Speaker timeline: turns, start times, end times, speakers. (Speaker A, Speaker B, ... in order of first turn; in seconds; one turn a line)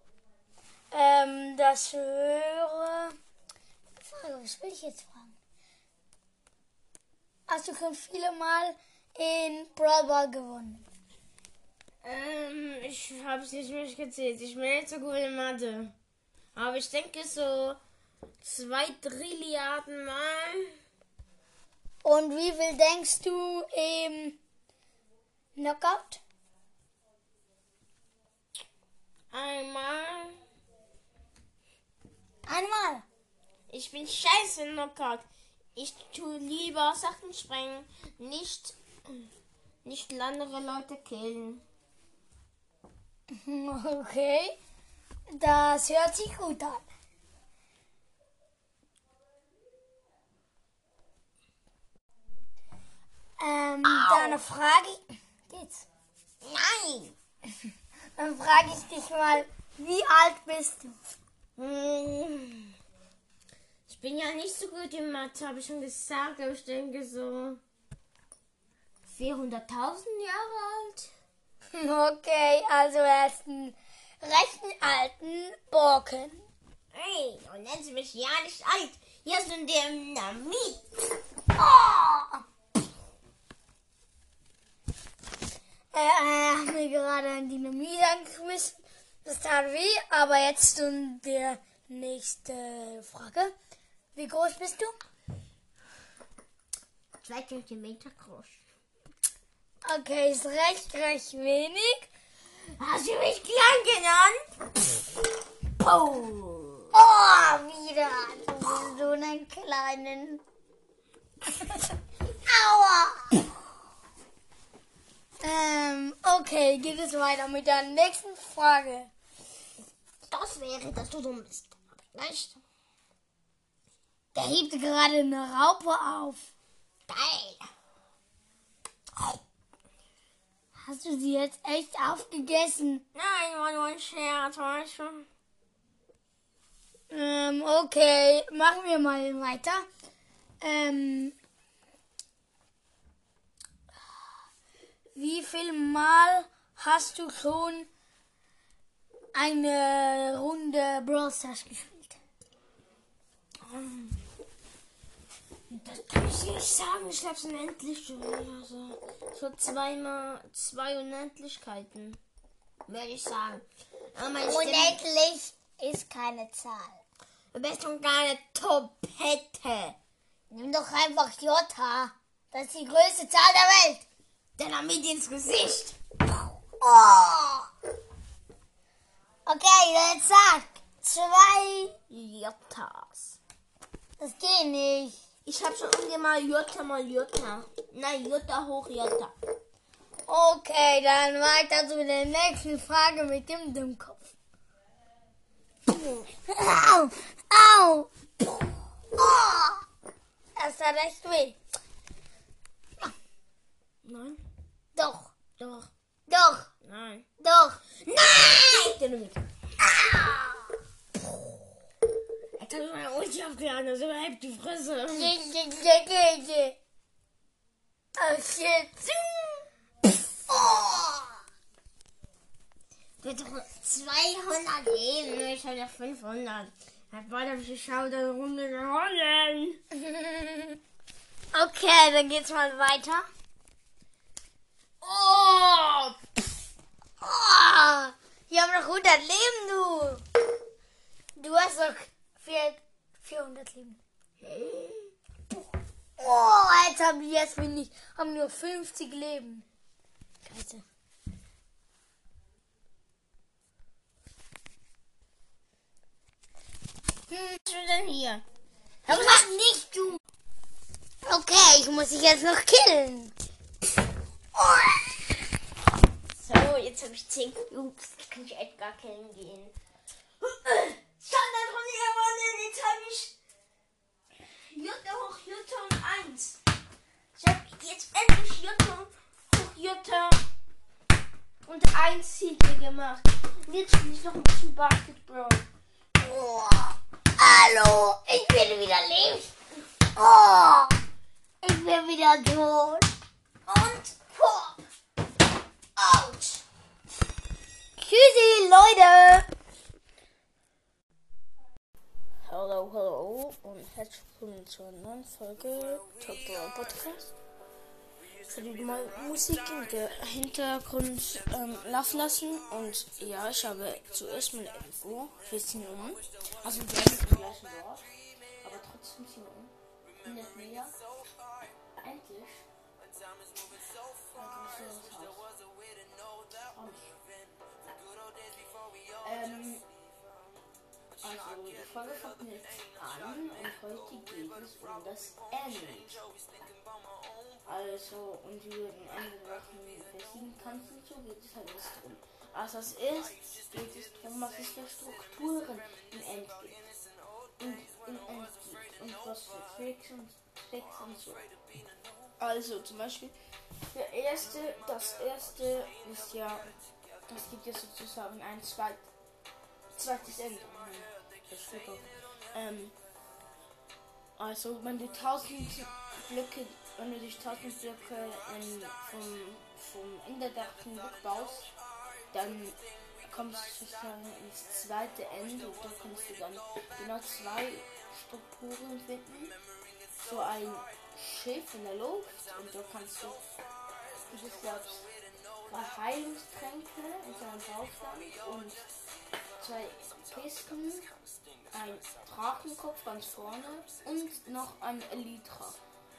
Speaker A: 0.9-3.1
Speaker A: 4.0-5.3
Speaker A: 7.5-10.8
Speaker B: 12.0-15.9
Speaker B: 16.5-17.8
Speaker B: 18.4-20.7
Speaker A: 22.0-24.4
Speaker A: 25.6-26.2
Speaker B: 29.3-30.4
Speaker A: 32.5-33.0
Speaker B: 33.7-39.3
Speaker B: 39.8-41.6
Speaker A: 43.3-44.6
Speaker A: 45.3-46.8
Speaker A: 53.4-55.9
Speaker B: 53.8-54.4
Speaker B: 56.4-57.1
Speaker A: 58.1-61.0
Speaker B: 61.6-62.7
Speaker B: 63.9-67.6
Speaker B: 69.0-71.1
Speaker A: 71.7-76.4
Speaker B: 76.9-80.9
Speaker B: 81.5-82.4
Speaker A: 85.9-93.5
Speaker A: 94.1-95.0
Speaker B: 97.2-98.6
Speaker A: 99.8-102.1
Speaker B: 102.7-104.4
Speaker B: 105.7-106.9
Speaker A: 106.9-110.4
Speaker A: 111.4-113.5
Speaker A: 115.4-119.1
Speaker B: 120.3-122.6
Speaker A: 124.3-126.5
Speaker B: 127.1-127.7
Speaker A: 130.7-133.0
Speaker B: 133.1-135.3
Speaker A: 137.1-139.9
Speaker A: 140.6-141.3
Speaker A: 145.1-147.9
Speaker A: 149.3-152.2
Speaker B: 153.6-154.2
Speaker B: 155.7-162.2
Speaker B: 162.9-165.0
Speaker A: 164.4-167.0
Speaker B: 167.5-170.0
Speaker A: 170.5-174.0
Speaker B: 174.6-176.0
Speaker A: 176.8-177.7
Speaker A: 179.4-181.9
Speaker B: 182.1-183.4
Speaker A: 184.2-185.2
Speaker B: 185.4-189.3
Speaker A: 190.3-194.3
Speaker B: 195.9-196.2
Speaker A: 196.5-199.8
Speaker A: 200.6-201.6
Speaker B: 204.0-204.4
Speaker A: 204.9-205.3
Speaker B: 205.6-205.9
Speaker A: 206.3-206.7
Speaker B: 206.8-207.3
Speaker A: 207.4-208.5
Speaker B: 208.0-209.4
Speaker A: 209.8-210.6
Speaker B: 212.6-215.3
Speaker A: 215.1-216.8
Speaker A: 218.2-219.5
Speaker A: 220.5-221.3
Speaker B: 223.2-229.8
Speaker A: 229.9-230.8
Speaker A: 231.5-233.3
Speaker B: 235.0-236.2
Speaker A: 237.2-240.2
Speaker A: 241.3-244.0
Speaker B: 244.4-245.1
Speaker A: 246.2-249.7
Speaker A: 250.4-250.8
Speaker A: 257.3-257.6
Speaker B: 257.6-258.4
Speaker B: 259.1-259.7
Speaker A: 259.1-260.1
Speaker A: 261.2-263.3
Speaker A: 264.6-265.0
Speaker B: 266.3-269.7
Speaker B: 270.4-273.4
Speaker B: 274.5-276.6
Speaker B: 277.3-280.4
Speaker B: 281.6-285.7
Speaker A: 286.2-286.9
Speaker A: 287.4-288.6
Speaker B: 288.5-289.6
Speaker A: 290.1-291.0
Speaker A: 291.6-293.1
Speaker B: 293.7-294.8
Speaker B: 296.0-296.6
Speaker A: 298.0-299.5
Speaker B: 302.4-307.3
Speaker B: 308.4-318.1
Speaker B: 318.6-319.7
Speaker B: 320.2-320.9
Speaker B: 322.0-322.6
Speaker B: 324.3-325.5
Speaker B: 326.7-327.2
Speaker B: 329.2-329.8
Speaker B: 331.2-336.2
Speaker B: 337.7-346.8
Speaker B: 347.6-351.5
Speaker B: 352.4-353.3
Speaker B: 353.9-356.7
Speaker B: 357.3-359.0
Speaker B: 359.9-362.9
Speaker B: 364.4-371.7
Speaker B: 372.3-379.5
Speaker B: 380.2-383.4
Speaker B: 384.3-385.1
Speaker B: 385.6-388.9
Speaker B: 389.6-391.1
Speaker B: 391.7-395.8